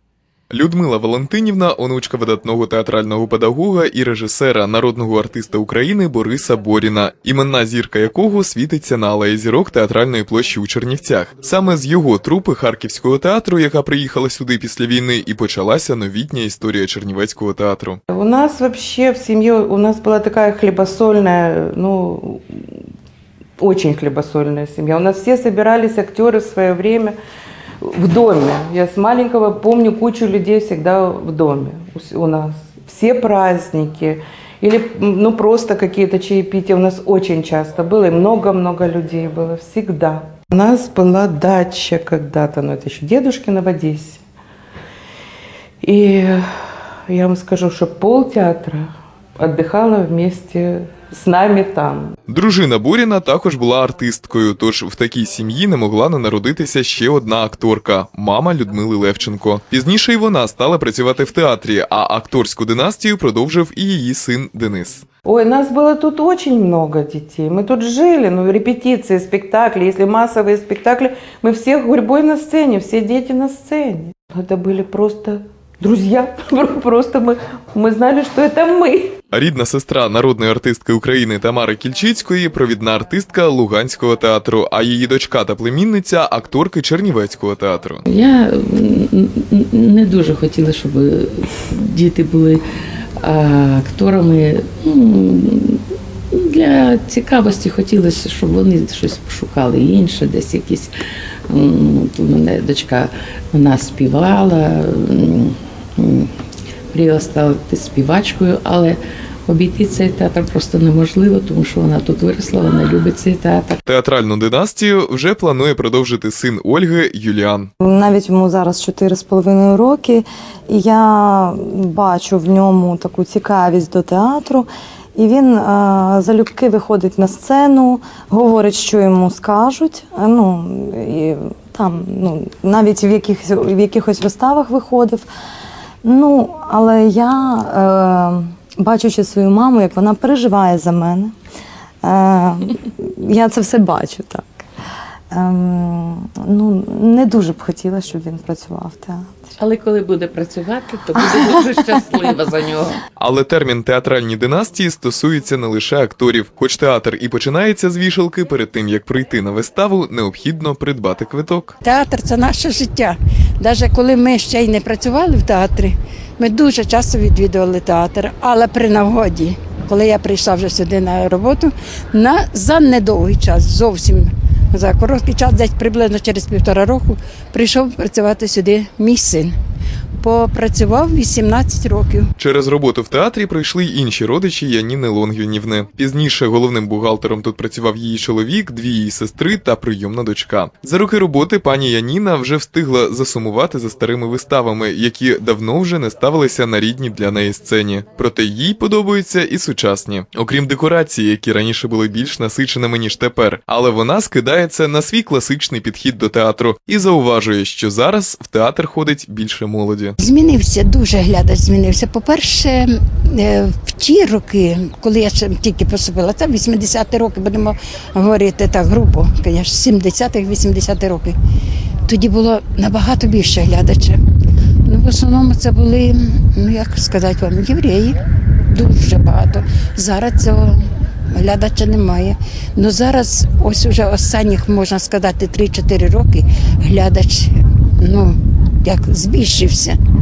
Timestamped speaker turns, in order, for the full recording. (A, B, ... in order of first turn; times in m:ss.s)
0:00.5-0:18.0 A
0:18.1-0:22.8 B
0:23.6-0:27.2 B
0:27.8-0:44.2 B
0:45.8-0:52.2 B
0:52.3-1:05.0 A
1:05.2-1:19.2 B
1:19.3-1:28.0 A
1:28.1-1:32.6 C
1:33.2-1:40.9 C
1:41.5-1:46.3 C
1:46.9-1:53.8 C
1:53.8-1:57.7 A
1:57.8-2:15.2 D
2:16.0-2:21.3 D
2:22.0-2:24.6 D
2:25.3-2:29.5 D
2:29.6-2:33.0 C
2:33.2-2:41.8 A
2:41.8-2:59.5 E
3:00.2-3:02.3 E
3:02.4-3:30.1 A
3:30.2-3:41.4 E
3:42.0-3:44.2 E
3:44.8-4:00.0 E